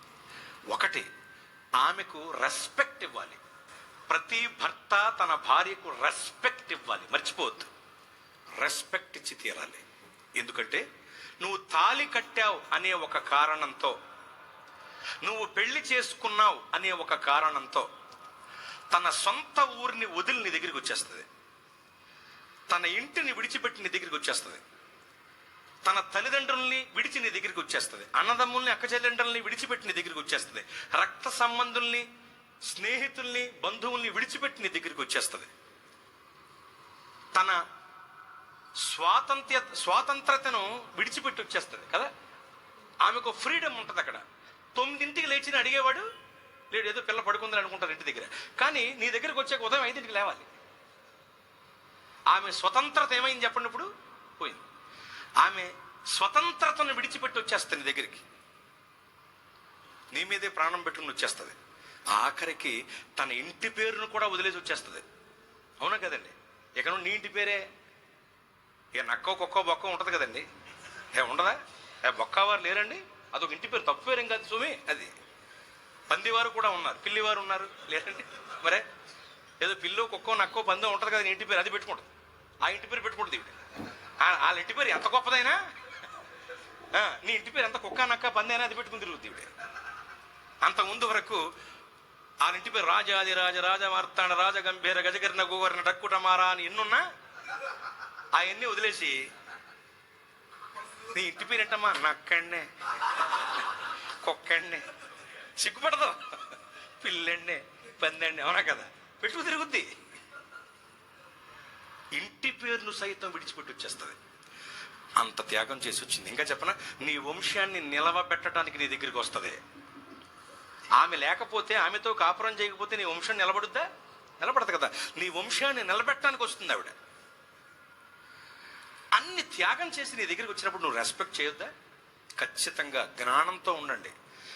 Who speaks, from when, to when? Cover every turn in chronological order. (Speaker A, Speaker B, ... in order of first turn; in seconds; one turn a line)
Speaker A: 0.7-1.1
Speaker A: 1.8-3.4
Speaker A: 4.1-7.7
Speaker A: 8.6-9.8
Speaker A: 10.4-10.8
Speaker A: 11.4-13.9
Speaker A: 15.2-17.9
Speaker A: 18.9-21.2
Speaker A: 22.7-24.6
Speaker A: 25.9-32.1
Speaker A: 32.6-35.5
Speaker A: 37.3-37.6
Speaker A: 38.8-42.1
Speaker A: 43.0-44.2
Speaker A: 44.8-46.1
Speaker A: 46.7-50.5
Speaker A: 52.3-53.9
Speaker A: 54.4-54.6
Speaker A: 55.4-58.2
Speaker A: 60.1-61.5
Speaker A: 62.1-65.0
Speaker A: 65.8-67.7
Speaker A: 69.0-70.5
Speaker A: 71.1-75.1
Speaker A: 76.1-78.8
Speaker A: 79.6-82.1
Speaker A: 82.6-83.6
Speaker A: 84.2-85.6
Speaker A: 86.9-89.5
Speaker A: 90.6-91.5
Speaker A: 92.4-97.1
Speaker A: 98.3-99.3
Speaker A: 101.1-103.7
Speaker A: 104.2-104.9
Speaker A: 105.6-109.9
Speaker A: 112.1-114.2
Speaker A: 115.2-119.6
Speaker A: 121.0-123.9
Speaker A: 124.4-127.0
Speaker A: 129.1-131.7
Speaker A: 132.4-134.1